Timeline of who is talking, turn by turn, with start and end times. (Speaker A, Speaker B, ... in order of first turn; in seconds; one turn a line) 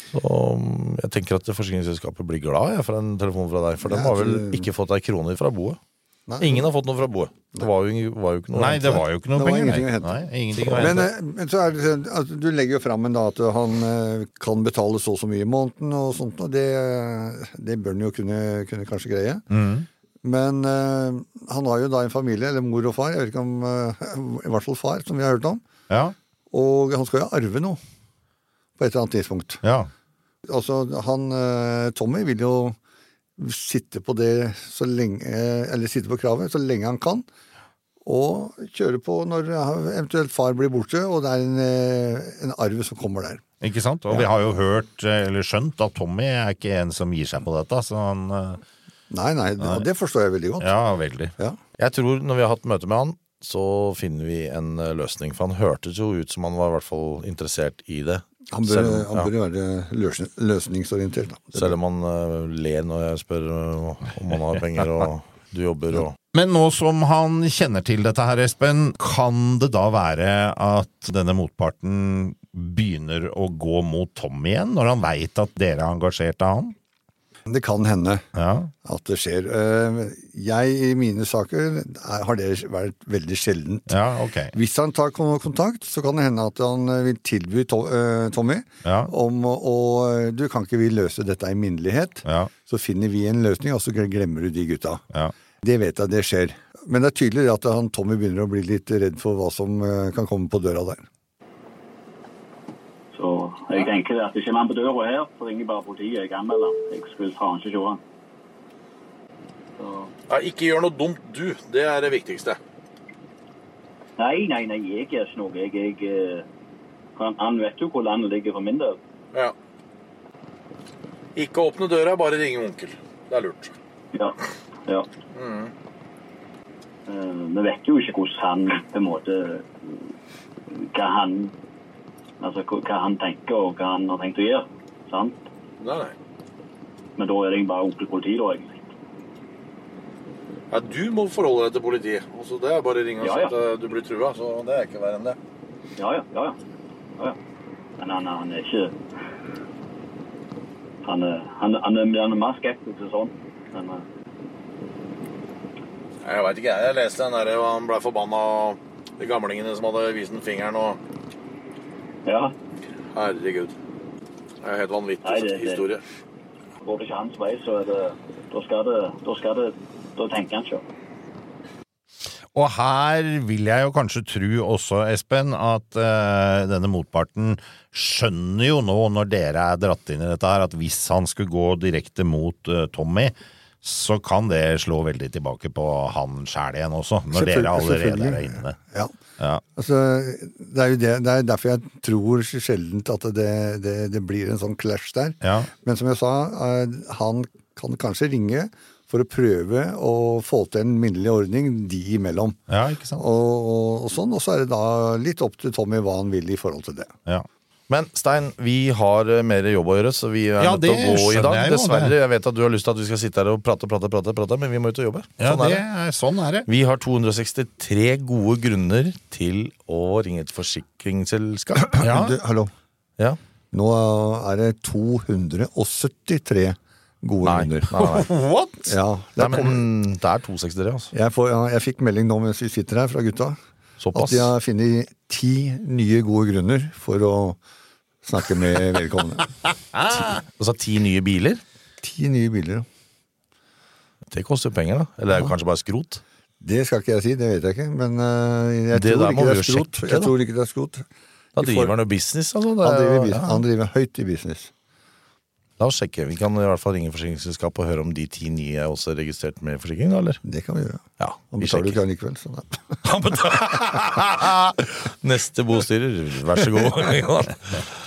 Speaker A: 0.1-5.8
Speaker B: 3.8-4.7
Speaker B: 6.3-6.7
Speaker A: 6.4-9.0
Speaker C: 8.5-11.1
Speaker B: 9.3-19.4
Speaker A: 10.6-11.0
Speaker C: 19.5-19.9
Speaker B: 20.2-25.6
Speaker C: 25.9-26.1
Speaker B: 26.5-27.8
Speaker B: 28.8-29.6
Speaker C: 29.6-29.9
Speaker B: 30.5-32.8
Speaker B: 33.4-37.2
Speaker B: 38.0-43.4
Speaker C: 43.6-48.6
Speaker B: 49.1-50.7
Speaker C: 50.6-51.4
Speaker A: 51.8-59.3
Speaker B: 58.5-61.7
Speaker A: 61.5-66.2
Speaker C: 66.3-76.7
Speaker B: 77.5-78.2
Speaker C: 78.3-78.7
Speaker B: 78.8-83.9
Speaker C: 83.9-84.5
Speaker B: 84.5-95.0
Speaker C: 88.8-89.1
Speaker B: 95.6-101.0
Speaker D: 103.1-108.0
Speaker D: 109.8-110.1
Speaker E: 110.3-112.6
Speaker D: 114.2-116.5
Speaker D: 117.2-119.0
Speaker E: 121.3-123.7
Speaker D: 124.1-125.1
Speaker E: 125.3-125.7
Speaker D: 127.1-130.0
Speaker D: 130.7-131.5
Speaker D: 132.4-135.4
Speaker E: 135.8-136.1
Speaker D: 137.2-138.9
Speaker E: 140.7-145.4
Speaker D: 143.2-143.5
Speaker D: 146.0-146.6
Speaker D: 148.0-148.9
Speaker D: 151.0-154.0
Speaker E: 156.2-161.0
Speaker D: 162.2-162.5
Speaker E: 163.1-163.7
Speaker E: 164.6-166.0
Speaker D: 165.2-165.8
Speaker D: 166.8-170.8
Speaker C: 172.5-188.7
Speaker B: 187.3-189.1
Speaker B: 189.7-202.6
Speaker C: 195.4-195.7
Speaker C: 202.7-203.2
Speaker B: 203.2-207.1
Speaker A: 207.9-215.8
Speaker C: 210.6-212.1
Speaker C: 215.4-216.7
Speaker A: 216.7-221.9
Speaker B: 221.8-222.7
Speaker C: 222.0-222.4
Speaker B: 223.7-228.1
Speaker A: 227.4-228.3
Speaker C: 228.0-228.9
Speaker B: 228.9-229.9
Speaker A: 229.4-231.1
Speaker B: 231.1-233.6
Speaker A: 234.0-234.5
Speaker B: 234.1-237.6
Speaker B: 238.2-239.5
Speaker C: 239.9-240.4
Speaker A: 240.2-241.6
Speaker B: 242.0-242.9
Speaker A: 244.3-246.2
Speaker B: 246.6-251.9
Speaker A: 248.9-250.3
Speaker A: 251.6-253.6
Speaker B: 252.8-254.7
Speaker A: 255.8-260.4
Speaker B: 260.4-263.5
Speaker A: 261.2-262.0
Speaker A: 263.0-267.9